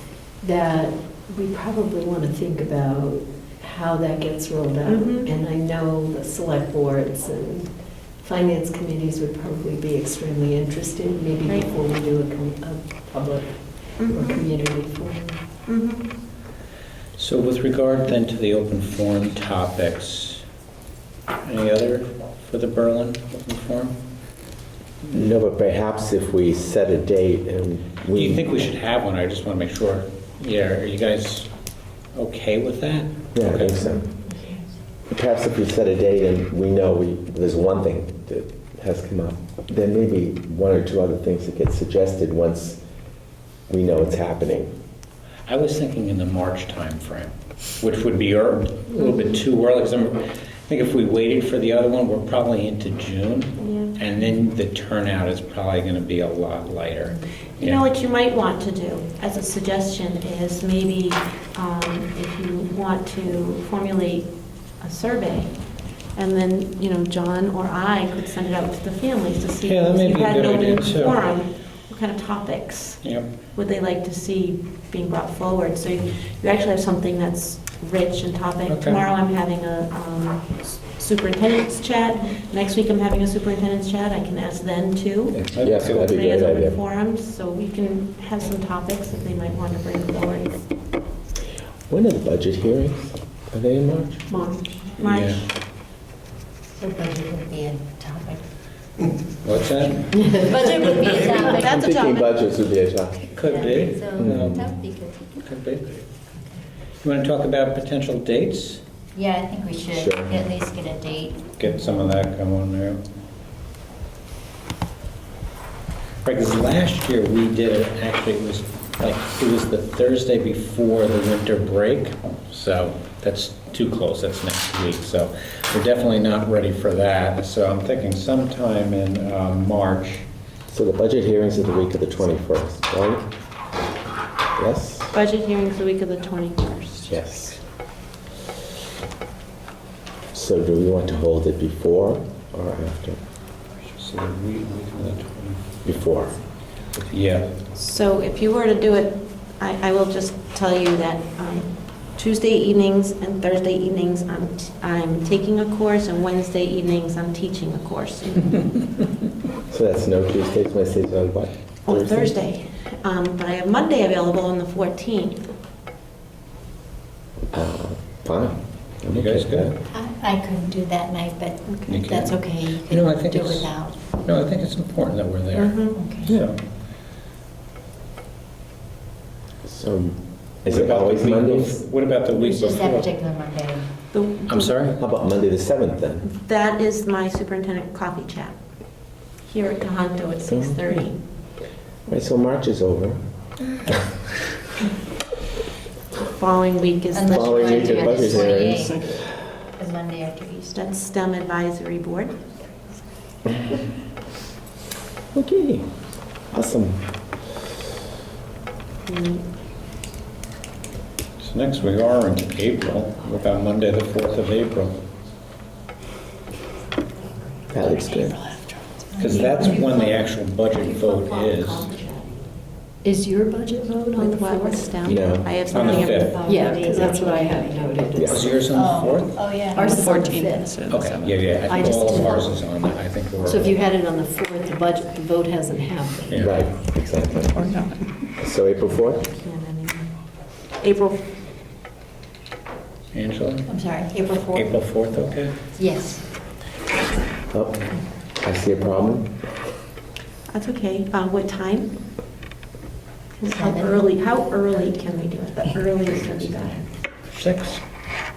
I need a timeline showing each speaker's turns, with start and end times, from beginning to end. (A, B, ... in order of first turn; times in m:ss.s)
0:00.4-0:07.7 A
0:04.9-0:05.3 B
0:08.2-0:15.4 A
0:14.0-0:14.4 B
0:15.7-0:16.1 B
0:17.2-0:20.4 C
0:21.4-0:24.0 C
0:25.1-0:28.5 D
0:28.0-0:31.5 C
0:32.1-0:34.0 C
0:33.3-0:34.0 D
0:35.1-0:42.8 D
0:43.7-0:44.7 D
0:45.5-0:57.9 C
0:49.0-0:49.4 B
0:53.6-0:54.0 B
0:57.6-1:30.7 B
1:09.6-1:11.3 C
1:13.0-1:13.3 C
1:18.7-1:19.0 C
1:25.4-1:26.8 D
1:25.5-1:26.1 C
1:31.9-1:34.3 D
1:34.3-1:35.5 B
1:35.0-1:35.4 C
1:36.8-1:38.4 E
1:39.4-1:40.4 C
1:40.4-1:41.9 E
1:41.4-1:42.3 B
1:41.4-1:43.3 D
1:43.4-1:44.7 C
1:43.4-1:45.4 E
1:44.2-1:44.6 D
1:45.4-1:46.0 C
1:47.0-1:48.8 C
1:49.1-1:51.6 E
1:49.9-1:50.4 D
1:51.6-1:53.0 C
1:56.2-2:10.3 C
2:10.7-2:13.2 D
2:14.6-2:15.1 D
2:15.1-2:17.5 B
2:17.1-2:17.6 D
2:20.3-2:23.2 D
2:23.9-2:25.6 C
2:25.8-2:26.4 D
2:27.1-2:27.5 C
2:27.7-2:38.7 B
2:39.7-2:42.3 D
2:41.9-2:45.4 B
2:47.5-2:49.8 D
2:49.1-2:49.7 C
2:49.9-2:54.1 E
2:51.9-2:56.6 C
2:55.5-2:56.0 B
2:55.9-2:56.3 E
2:59.6-3:01.8 D
3:00.7-3:03.1 C
3:02.3-3:03.9 E
3:04.1-3:04.8 B
3:04.5-3:05.0 C
3:05.0-3:06.3 D
3:06.3-3:08.6 B
3:09.4-3:11.2 B
3:10.5-3:10.8 D
3:12.1-3:13.2 D
3:16.2-3:18.4 B
3:17.1-3:19.1 E
3:17.3-3:19.1 D
3:18.4-3:19.1 F
3:19.8-3:20.8 E
3:20.7-3:22.4 B
3:25.3-3:25.9 D
3:26.5-3:27.0 D
3:29.1-3:29.4 B
3:31.4-3:35.0 C
3:37.7-3:38.4 D
3:37.9-3:39.1 A
3:39.2-3:41.9 C
3:39.2-3:39.5 E
3:39.2-3:40.3 B
3:40.8-3:42.4 B
3:43.0-3:45.0 A
3:44.1-3:46.7 B
3:45.0-3:45.5 D
3:45.7-3:46.5 C
3:45.8-3:48.5 A
3:45.9-3:47.9 E
3:48.2-3:48.5 D
3:48.3-3:49.5 C
3:48.6-3:50.3 E
3:49.7-3:50.8 A
3:49.7-3:51.4 F
3:50.9-3:53.8 C
3:51.7-3:52.6 A
3:53.4-3:56.4 A
3:56.3-3:56.6 C
3:56.4-3:57.7 D
3:57.6-3:58.0 F
3:58.4-3:59.2 D
3:59.3-4:00.1 B
4:00.8-4:01.3 B
4:03.1-4:03.7 C
4:03.7-4:04.8 E
4:04.5-4:05.6 C
4:05.8-4:06.2 E
4:07.5-4:07.9 D
4:08.4-4:09.4 D
4:10.5-4:11.9 B
4:13.4-4:16.9 B
4:13.4-4:14.0 E
4:17.3-4:17.8 C